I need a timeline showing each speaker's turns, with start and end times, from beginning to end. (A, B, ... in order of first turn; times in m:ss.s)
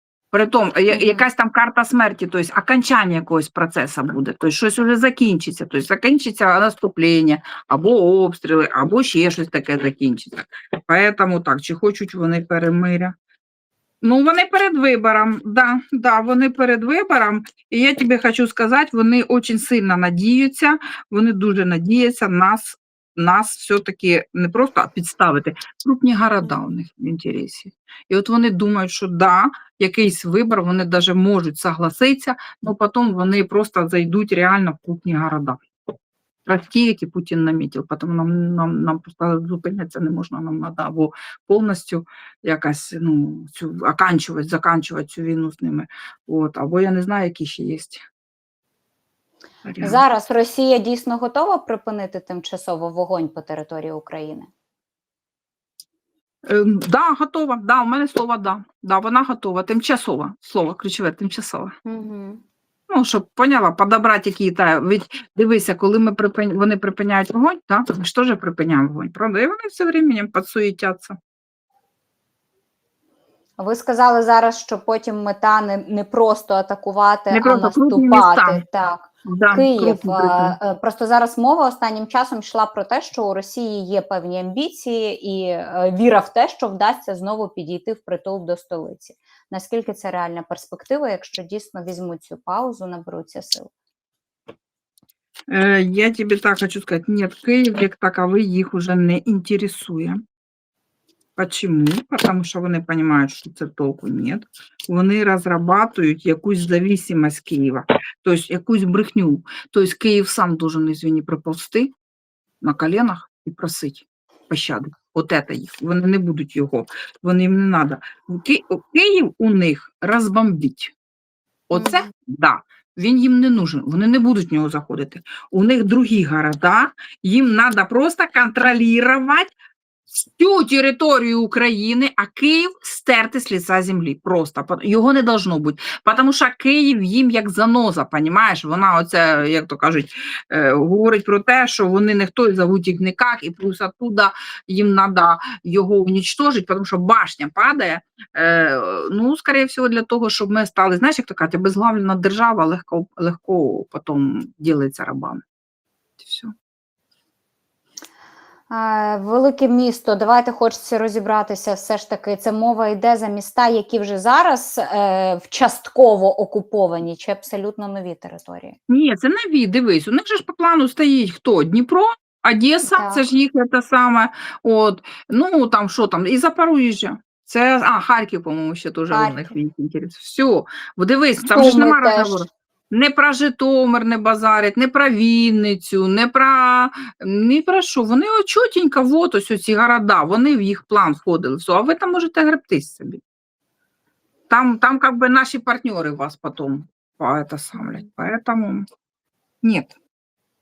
0:00.3-0:13.1 A
0:00.9-0:01.2 B
0:14.0-0:35.6 A
0:36.4-0:48.0 A
0:49.6-0:50.0 A
0:49.8-0:54.5 B
0:56.4-1:01.7 A
1:01.8-1:02.4 B
1:02.9-1:11.2 A
1:13.6-1:33.7 B
1:17.3-1:18.6 A
1:19.3-1:20.6 A
1:35.5-1:40.2 A
1:41.4-1:51.9 A
1:52.6-2:00.9 A
2:01.7-2:09.5 A
2:01.7-2:02.1 B
2:10.1-2:35.4 A
2:36.2-2:36.5 A
2:38.7-2:48.8 B
2:48.9-3:13.2 A
2:52.8-2:53.2 B
2:59.1-2:59.5 B
3:01.5-3:02.4 B
3:14.5-3:18.8 A
3:19.6-3:19.9 A